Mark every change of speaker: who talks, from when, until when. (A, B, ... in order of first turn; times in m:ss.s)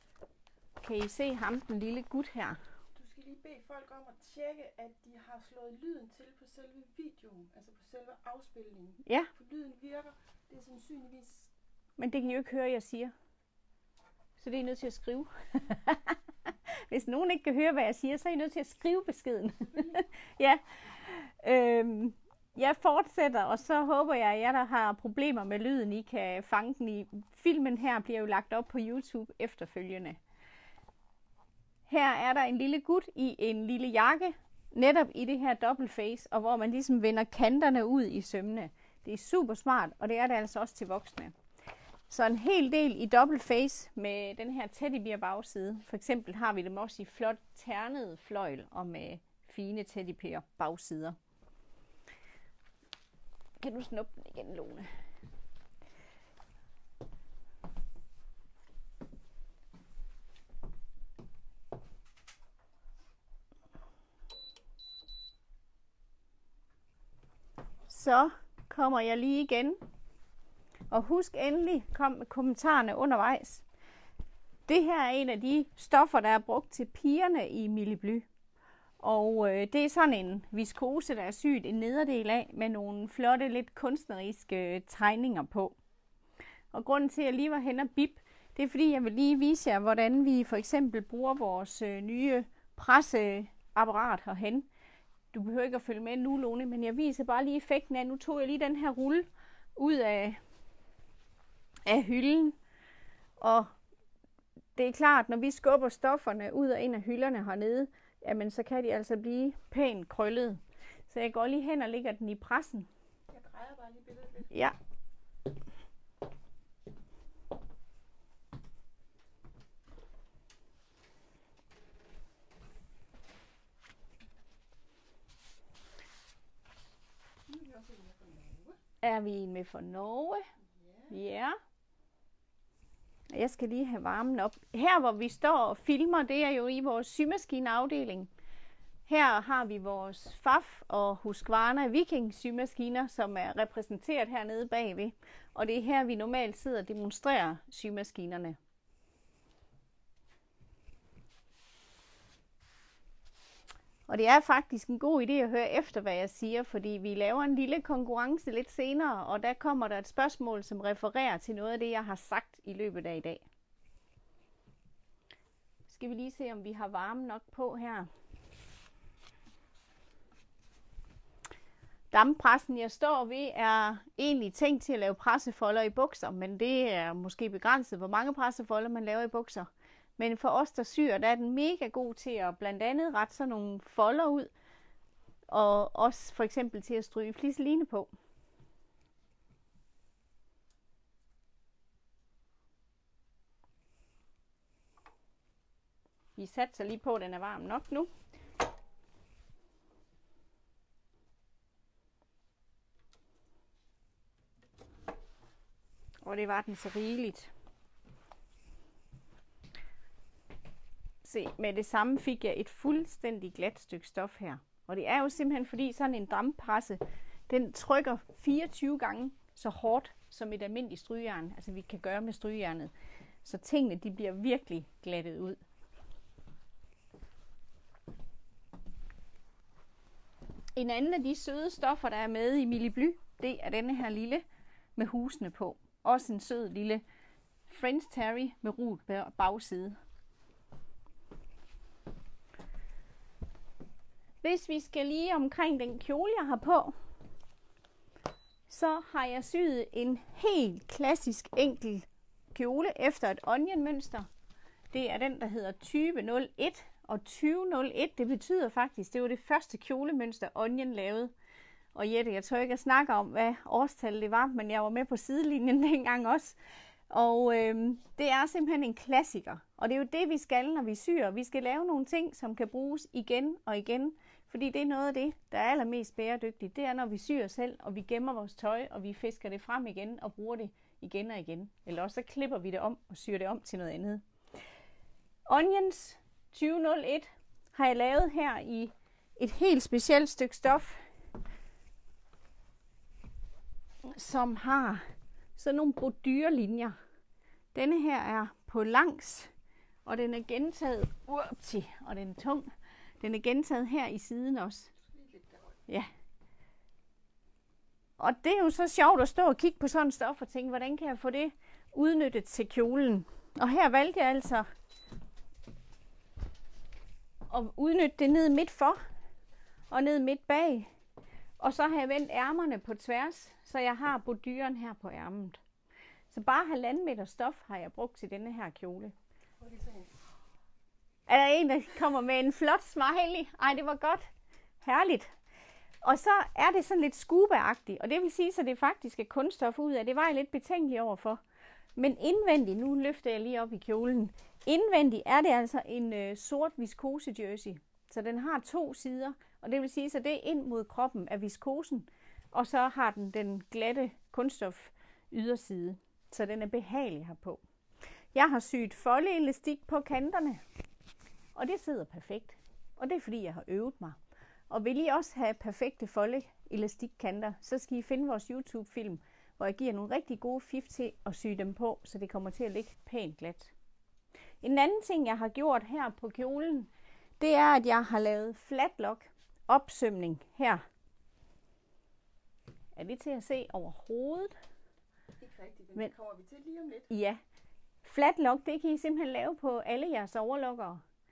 0:00.8-0:02.6 A
0:02.9-0:11.5 B
0:09.0-0:09.3 A
0:12.0-0:13.1 A
0:14.4-0:16.2 A
0:16.7-0:30.2 A
0:19.7-0:20.0 B
0:31.9-0:41.3 A
0:42.1-0:51.2 A
0:53.6-0:55.0 A
1:07.9-1:09.8 A
1:10.9-1:13.6 A
1:14.7-1:18.2 A
1:19.0-1:25.8 A
1:26.7-1:34.7 A
1:35.3-1:40.4 A
1:41.8-1:42.6 A
1:43.4-1:43.7 A
1:44.8-1:52.9 A
1:53.3-1:54.5 B
2:07.5-2:08.8 B
2:09.0-2:10.4 A
2:10.7-2:11.2 B
2:11.1-2:11.6 A
2:13.3-2:18.3 A
2:19.1-2:28.6 A
2:34.1-2:43.4 A
2:45.9-2:48.1 A
2:52.1-3:04.5 A
3:05.5-3:08.1 A
3:16.4-3:18.1 A
3:26.2-3:27.5 A
3:31.2-3:42.9 A
3:43.4-3:45.6 A
3:50.8-3:54.4 A
3:55.0-3:57.0 A
3:57.7-4:00.0 A
4:04.4-4:06.9 A
4:08.7-4:14.3 A
4:14.9-4:21.3 A
4:21.9-4:26.6 A
4:27.1-4:44.2 A
4:45.5-4:51.0 A
4:54.0-4:55.0 A
4:55.6-4:57.0 A
4:57.7-4:59.5 A
5:00.0-5:04.9 A
5:05.0-5:05.8 B
5:08.2-5:14.7 A
5:17.5-5:19.0 A
5:19.9-5:20.9 A
5:21.6-5:25.6 A
5:26.3-5:29.1 A
5:29.6-5:30.1 B
5:31.3-5:34.3 A
5:34.8-5:35.3 A
5:36.0-5:41.4 A
5:42.0-5:57.6 A
5:58.3-6:00.6 A
6:01.5-6:04.2 A
6:04.7-6:13.7 A
6:14.6-6:20.8 A
6:23.0-6:24.5 A
6:25.4-6:27.1 B
6:27.1-6:27.4 A
6:28.0-6:31.0 A